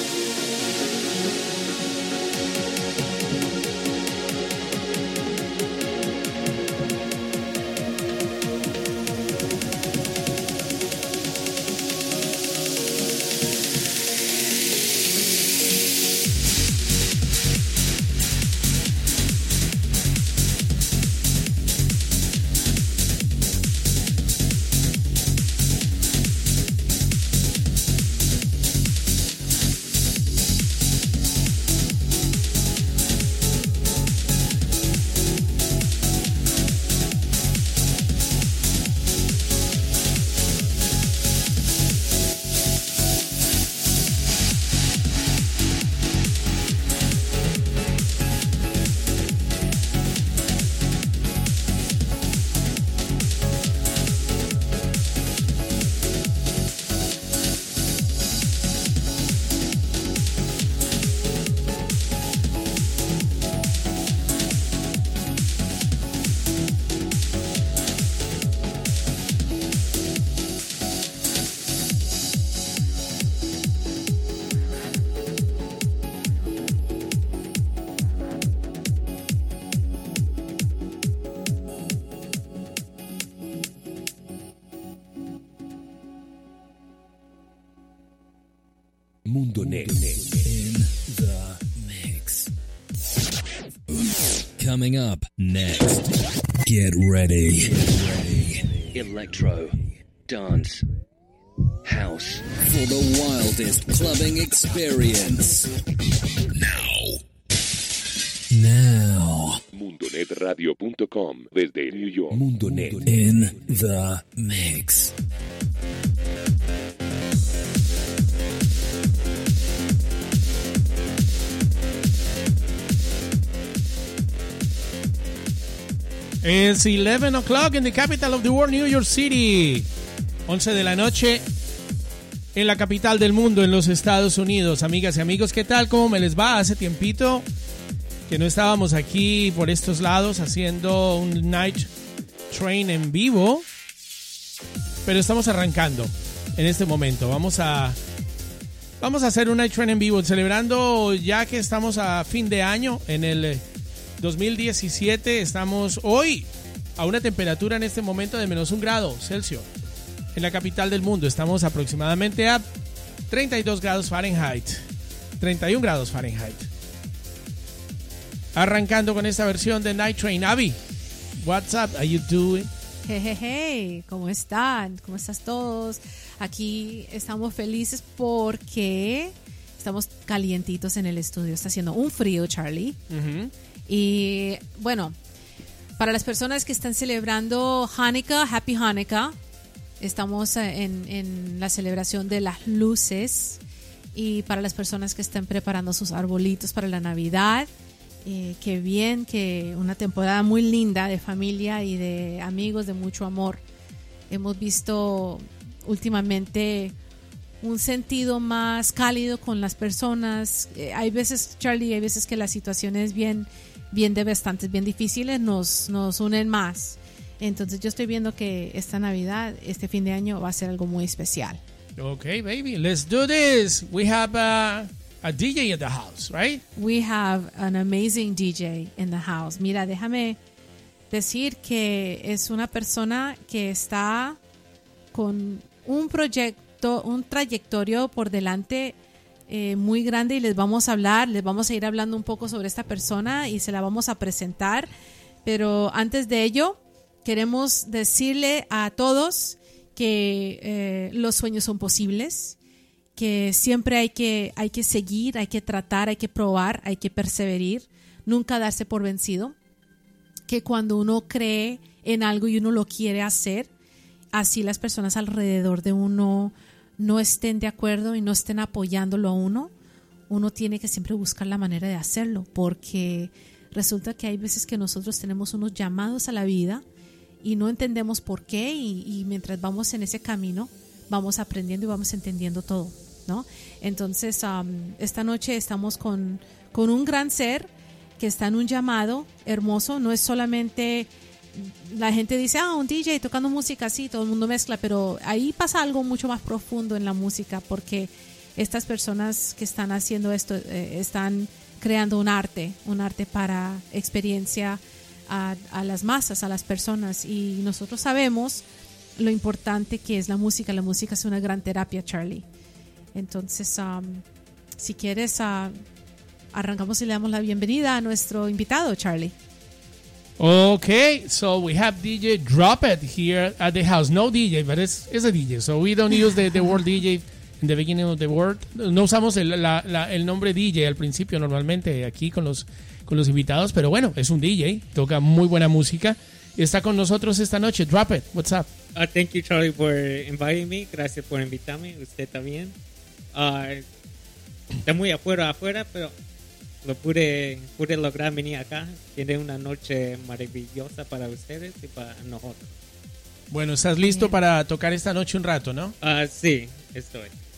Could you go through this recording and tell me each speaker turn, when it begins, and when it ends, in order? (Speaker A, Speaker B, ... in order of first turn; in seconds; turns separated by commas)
Speaker A: 89.2-92.5, Speaker A: 94.6-96.1, Speaker A: 96.6-98.7, Speaker B: 98.9-99.8, Speaker B: 100.3-100.8, Speaker B: 101.8-102.4, Speaker A: 102.6-105.7, Speaker A: 106.5-107.2, Speaker A: 108.5-109.6, Speaker C: 109.7-113.0, Speaker A: 112.3-115.1, Speaker D: 126.4-129.9, Speaker D: 130.5-131.4, Speaker D: 132.5-137.4, Speaker D: 138.3-141.9, Speaker D: 142.5-143.7, Speaker D: 145.0-148.0, Speaker D: 149.0-153.6, Speaker D: 154.2-159.7, Speaker D: 160.3-162.7, Speaker D: 163.3-164.8, Speaker D: 165.4-166.7, Speaker D: 168.5-170.8, Speaker D: 171.4-172.7, Speaker E: 173.1-183.0, Speaker D: 183.1-183.5, Speaker E: 183.9-185.2, Speaker E: 186.0-189.3, Speaker E: 190.0-193.6, Speaker E: 194.1-197.7, Speaker E: 198.2-203.6, Speaker E: 204.3-206.9, Speaker E: 207.6-221.6, Speaker D: 222.0-226.6, Speaker E: 226.8-230.4, Speaker E: 231.1-234.4, Speaker E: 235.1-239.0, Speaker E: 239.5-244.9, Speaker E: 245.4-252.6, Speaker E: 253.2-259.6, Speaker E: 260.5-263.7, Speaker E: 264.3-269.7, Speaker E: 270.3-276.8, Speaker E: 277.4-308.6, Speaker E: 309.2-312.5, Speaker E: 313.1-314.2, Speaker E: 314.8-315.8, Speaker E: 316.5-319.4, Speaker D: 320.4-338.7, Speaker E: 326.1-326.8, Speaker F: 338.9-342.8, Speaker F: 343.3-343.9, Speaker F: 344.9-346.1, Speaker F: 346.8-352.8, Speaker D: 353.5-355.9, Speaker E: 354.0-354.4, Speaker F: 356.0-357.3